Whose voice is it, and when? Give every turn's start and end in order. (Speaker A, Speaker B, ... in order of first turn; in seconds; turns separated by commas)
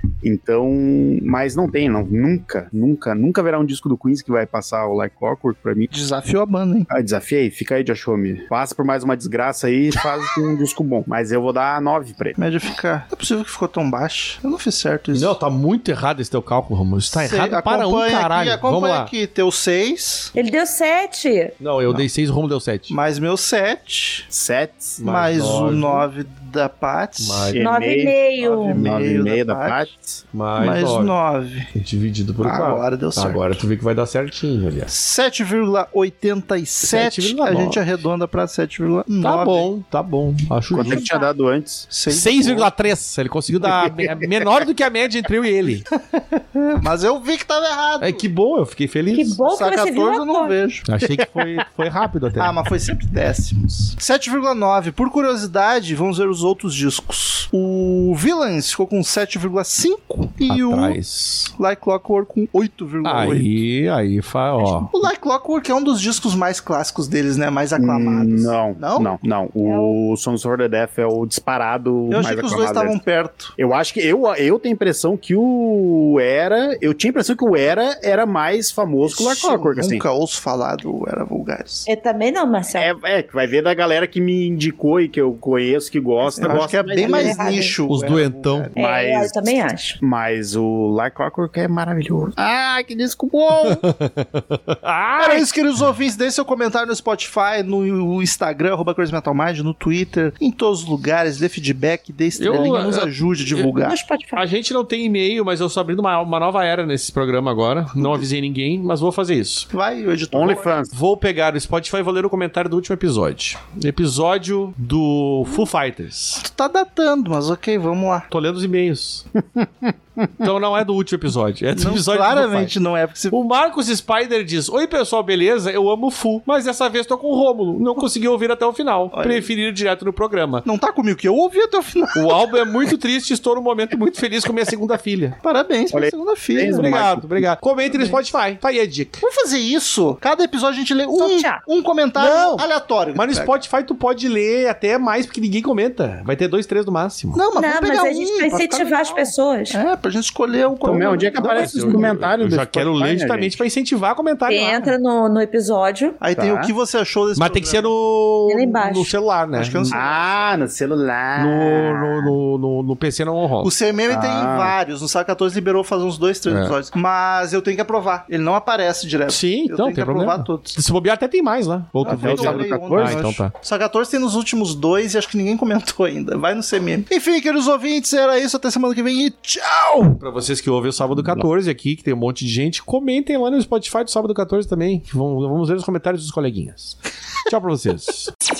Speaker A: 0.2-5.9, Speaker B: 5.9-6.9, Speaker A: 6.9-12.4, Speaker B: 12.4-15.3, Speaker C: 15.1-19.1, Speaker B: 17.1-20.3, Speaker D: 20.4-21.6, Speaker C: 21.6-22.9, Speaker B: 22.9-24.3, Speaker A: 24.3-25.0, Speaker C: 25.0-26.1, Speaker B: 25.0-27.6, Speaker C: 27.2-27.6, Speaker A: 27.5-28.1, Speaker D: 27.6-28.8, Speaker B: 28.4-31.7, Speaker A: 28.8-29.9, Speaker C: 30.3-31.2, Speaker C: 31.7-34.9, Speaker B: 32.4-33.6, Speaker B: 34.9-39.7, Speaker C: 36.8-37.8, Speaker C: 39.2-41.1, Speaker A: 40.7-41.9, Speaker D: 40.9-41.3, Speaker B: 41.9-42.7, Speaker C: 42.1-45.9, Speaker A: 43.6-44.2, Speaker B: 45.9-48.2, Speaker C: 48.0-49.4, Speaker D: 49.1-50.5, Speaker B: 49.4-51.4, Speaker C: 50.9-52.6, Speaker B: 52.4-61.0, Speaker C: 60.5-61.5, Speaker B: 61.5-63.6, Speaker C: 63.0-64.9, Speaker B: 64.6-69.2, Speaker A: 67.8-73.0, Speaker D: 69.6-70.0, Speaker B: 72.1-73.5, Speaker A: 73.6-80.0, Speaker B: 79.0-81.9, Speaker D: 81.9-82.9, Speaker A: 82.8-87.7, Speaker B: 86.3-88.8, Speaker D: 86.9-87.8, Speaker C: 87.9-88.7, Speaker A: 88.7-93.8, Speaker D: 88.8-90.0, Speaker C: 93.6-95.4, Speaker B: 95.2-104.0, Speaker C: 102.4-103.7, Speaker D: 103.8-104.4, Speaker C: 104.3-109.7, Speaker B: 108.0-108.2, Speaker B: 109.7-110.8, Speaker A: 110.3-110.9, Speaker C: 110.9-116.4, Speaker B: 116.4-118.3, Speaker C: 118.3-119.3, Speaker A: 119.6-120.3, Speaker C: 120.4-122.7, Speaker B: 121.7-123.4, Speaker C: 123.3-130.7, Speaker B: 129.1-129.5, Speaker B: 130.7-132.7, Speaker C: 132.2-135.4, Speaker B: 135.4-137.0, Speaker A: 135.9-137.3, Speaker C: 136.6-139.2, Speaker B: 137.9-138.2, Speaker B: 139.2-143.6, Speaker D: 141.2-141.6, Speaker C: 142.2-147.4, Speaker B: 147.3-152.1, Speaker D: 147.6-149.8, Speaker C: 150.8-154.9, Speaker A: 150.8-153.6, Speaker D: 154.5-156.2, Speaker B: 156.2-157.9, Speaker A: 156.4-156.7, Speaker C: 157.4-160.0, Speaker D: 158.5-159.1, Speaker B: 159.6-160.4, Speaker A: 159.9-162.3, Speaker C: 161.4-163.7, Speaker B: 163.6-170.8, Speaker A: 164.1-164.7, Speaker C: 166.5-166.7, Speaker C: 169.3-173.5, Speaker B: 172.0-180.2, Speaker A: 172.1-173.2, Speaker C: 180.2-188.3